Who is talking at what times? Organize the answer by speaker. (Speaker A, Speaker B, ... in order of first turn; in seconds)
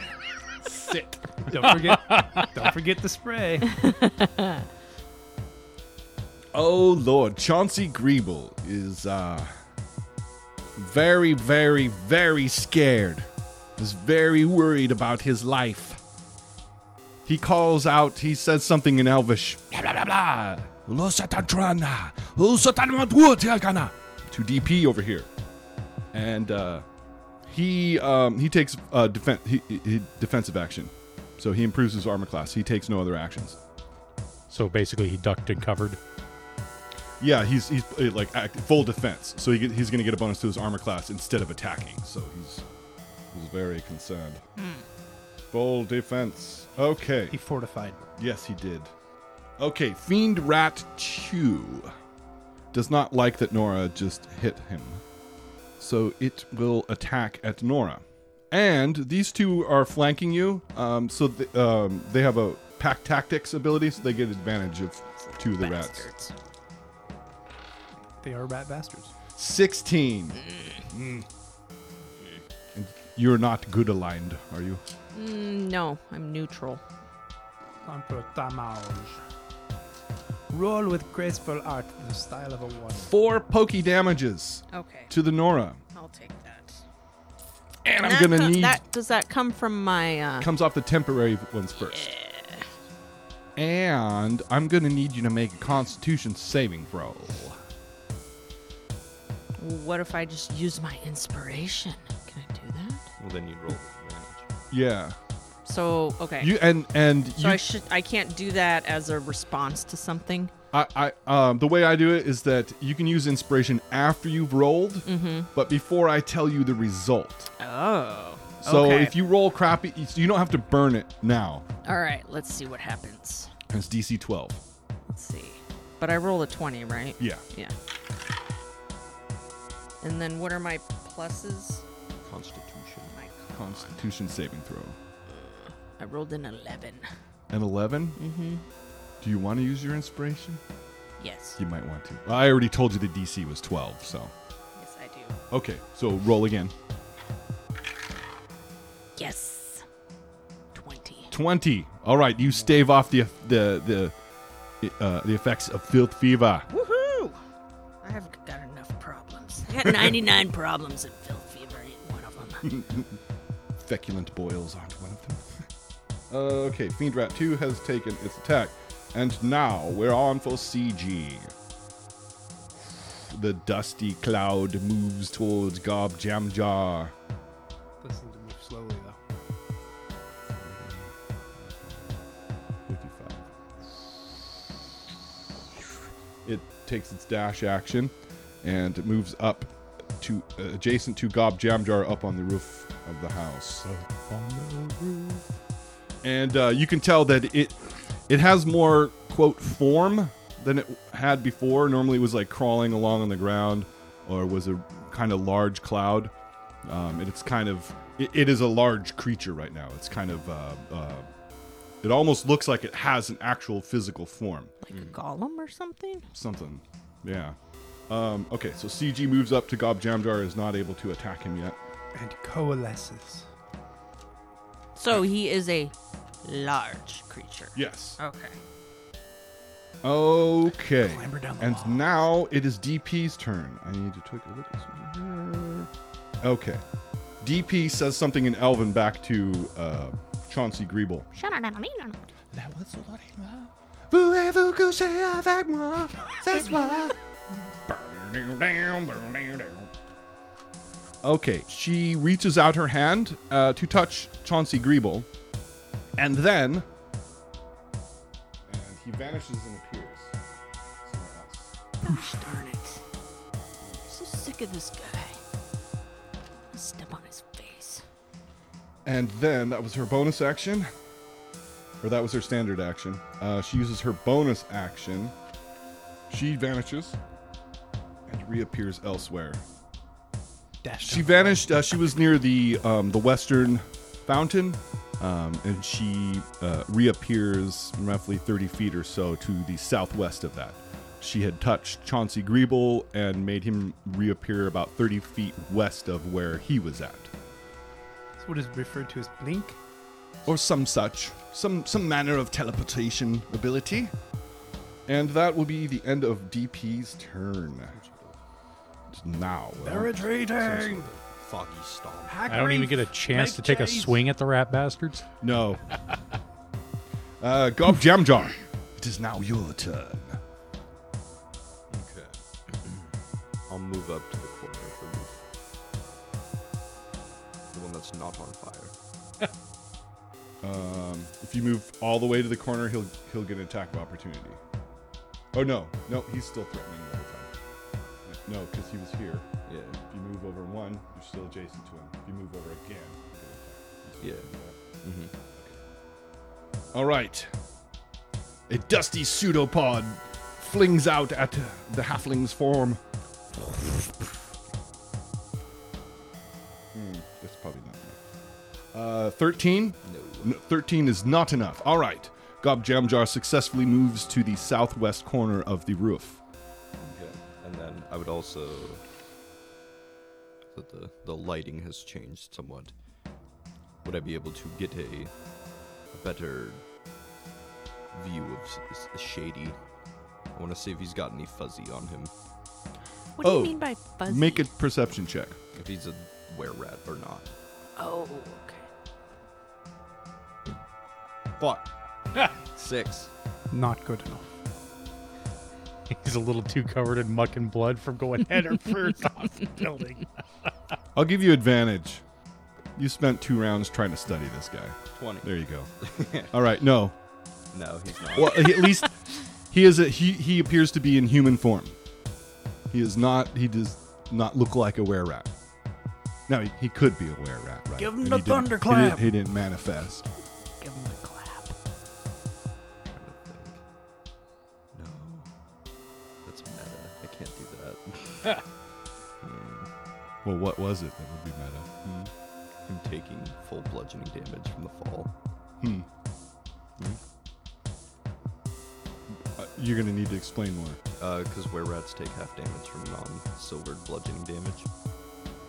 Speaker A: 1.5-3.8, 47.3-48.0, 68.2-69.1, 77.8-79.2, 80.5-83.1, 178.0-179.2, 222.2-223.5, 231.0-232.0, 280.8-281.6, 298.4-299.8, 309.8-311.1, 312.3-314.2, 393.7-394.6, 418.0-419.3
Speaker B: 1.6-2.5, 34.5-36.0, 193.8-195.5, 312.5-315.2, 396.1-400.2
Speaker C: 3.7-4.6, 44.6-44.9, 65.2-66.3, 70.5-70.8, 75.1-76.8, 84.7-85.1, 85.9-86.8, 88.0-90.5, 91.8-92.7, 99.6-103.1, 105.7-106.5, 107.3-110.5, 115.0-115.5, 117.6-119.2, 121.8-123.5, 125.1-127.7, 130.0-131.8, 133.1-134.0, 135.3-137.1, 138.2-138.6, 141.2-141.6, 144.8-145.4, 149.2-149.8, 150.7-151.3, 156.7-157.4, 158.0-162.7, 214.8-216.2, 225.0-228.6, 241.3-242.2, 262.0-263.0, 264.0-265.4, 266.7-268.0, 383.4-384.7, 388.0-388.9, 420.8-421.7
Speaker D: 6.5-9.5, 10.8-16.0, 17.2-25.3, 26.1-26.9, 27.5-33.6, 37.2-42.6, 43.3-44.4, 45.5-47.4, 48.2-48.9, 49.6-51.9, 52.7-55.0, 55.8-66.1, 69.4-71.3, 72.7-74.8, 83.0-85.8, 87.8-88.8, 90.4-92.1, 93.6-97.6, 104.7-105.2, 106.4-107.6, 110.7-117.5, 118.6-121.7, 123.7-124.6, 127.2-127.4, 133.5-135.0, 137.5-138.2, 139.2-140.6, 141.6-144.3, 145.5-146.7, 151.3-154.2, 154.8-156.7, 159.8-160.1, 162.6-163.2, 163.8-165.7, 166.3-171.5, 172.9-177.1, 180.5-181.1, 181.8-182.1, 182.9-183.5, 186.4-193.9, 196.2-206.3, 206.8-211.3, 212.0-214.7, 216.3-217.6, 218.1-221.8, 227.8-228.2, 230.0-235.9, 236.4-236.8, 237.4-241.3, 242.5-247.2, 247.9-249.9, 251.2-255.3, 256.2-256.9, 258.7-260.4, 261.0-261.8, 269.1-270.9, 272.0-275.3, 276.3-277.2, 278.3-279.6, 281.0-297.3, 300.5-304.1, 305.1-308.0, 309.1-310.3, 315.4-315.8, 317.4-320.4, 330.6-334.6, 335.5-337.5, 338.2-339.5, 340.1-344.8, 346.9-347.5, 348.7-353.0, 353.6-354.3, 356.9-358.2, 358.9-366.4, 383.4-385.6, 401.1-402.2, 403.0-405.9, 406.5-407.1, 408.4-409.1, 409.7-412.0, 412.9-415.5, 416.5-420.3, 430.4-432.3, 435.8-436.1, 439.5-441.0
Speaker E: 103.2-104.5, 132.2-133.2, 214.9-215.2, 307.9-308.4, 310.6-312.4, 321.9-323.0, 323.7-325.4, 327.7-328.9, 339.7-340.0, 344.2-344.5, 345.0-345.3, 360.0-360.6, 367.0-369.0, 370.7-372.9, 374.0-375.3, 376.1-376.8, 378.1-379.8, 380.5-382.3, 385.8-387.5, 392.6-393.3, 405.2-406.5, 407.7-408.8, 423.1-423.8, 424.9-425.5, 426.4-428.6, 429.4-429.9, 432.9-435.3, 441.2-444.9